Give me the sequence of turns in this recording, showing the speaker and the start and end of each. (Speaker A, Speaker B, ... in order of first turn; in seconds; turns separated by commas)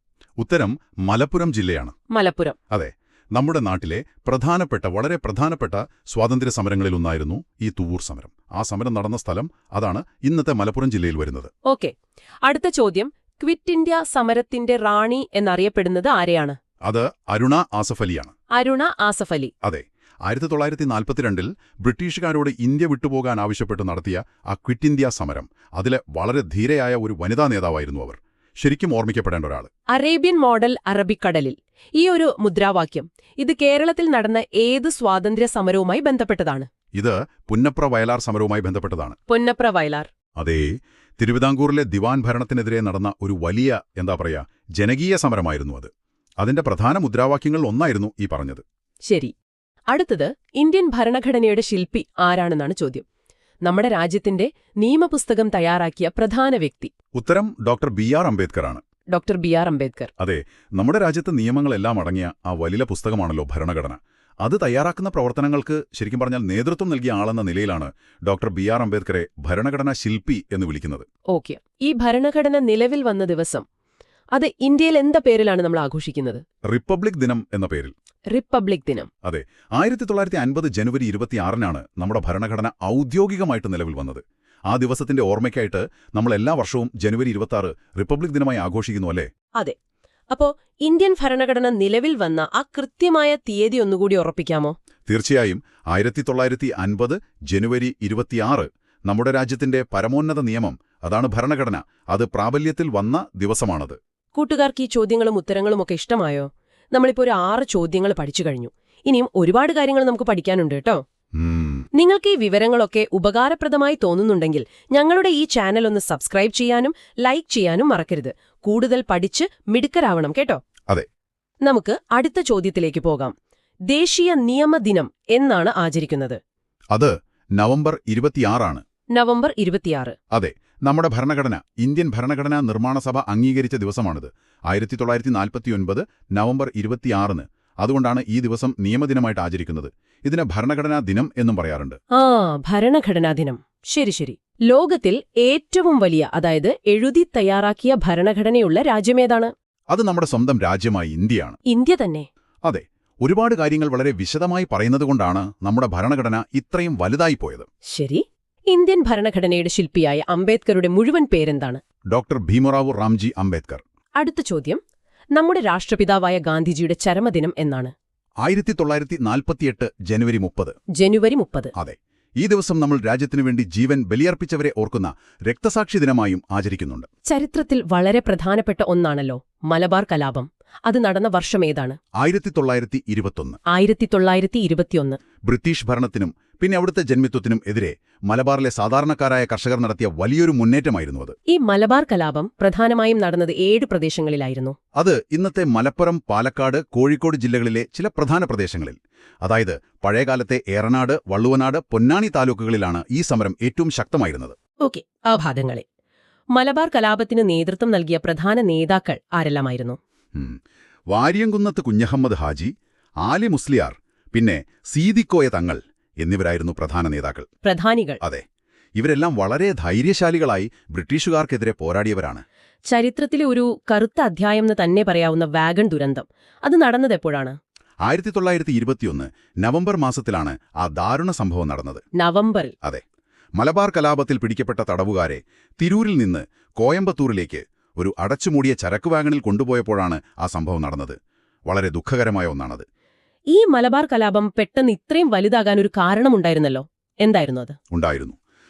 Speaker A: 0.4-1.9, Speaker B: 2.1-2.6, Speaker A: 2.7-11.5, Speaker B: 11.6-11.9, Speaker B: 12.4-16.6, Speaker A: 16.8-18.3, Speaker B: 18.5-19.5, Speaker A: 19.6-29.7, Speaker B: 29.9-36.7, Speaker A: 36.9-39.2, Speaker B: 39.3-40.1, Speaker A: 40.4-48.6, Speaker B: 49.1-49.3, Speaker B: 49.9-53.0, Speaker B: 53.6-56.9, Speaker A: 57.1-58.8, Speaker B: 59.1-60.1, Speaker A: 60.2-71.1, Speaker B: 71.3-73.6, Speaker B: 74.3-76.4, Speaker A: 76.7-77.9, Speaker B: 78.3-79.1, Speaker A: 79.2-89.3, Speaker B: 90.3-94.7, Speaker A: 95.1-104.0, Speaker B: 104.3-111.0, Speaker A: 111.3-111.8, Speaker B: 111.9-120.6, Speaker B: 121.6-123.3, Speaker B: 123.9-126.4, Speaker A: 126.9-128.8, Speaker B: 129.1-130.2, Speaker A: 130.3-142.0, Speaker B: 142.1-149.5, Speaker A: 149.9-151.6, Speaker B: 151.7-152.3, Speaker A: 152.6-157.7, Speaker B: 157.9-161.8, Speaker A: 162.1-163.8, Speaker B: 164.2-164.8, Speaker B: 165.3-167.9, Speaker A: 168.4-170.8, Speaker B: 170.9-171.7, Speaker A: 171.7-177.1, Speaker B: 177.3-182.0, Speaker A: 182.2-183.6, Speaker B: 183.7-185.2, Speaker A: 185.4-191.3, Speaker B: 191.5-194.8, Speaker A: 194.9-204.6, Speaker B: 204.8-205.8, Speaker B: 206.5-210.0, Speaker A: 210.3-210.6, Speaker A: 211.1-217.5, Speaker B: 217.6-218.2, Speaker A: 219.0-222.4, Speaker B: 222.9-227.6, Speaker A: 228.0-232.0, Speaker B: 232.2-232.7, Speaker A: 233.6-242.8, Speaker B: 243.5-247.8, Speaker A: 247.9-248.3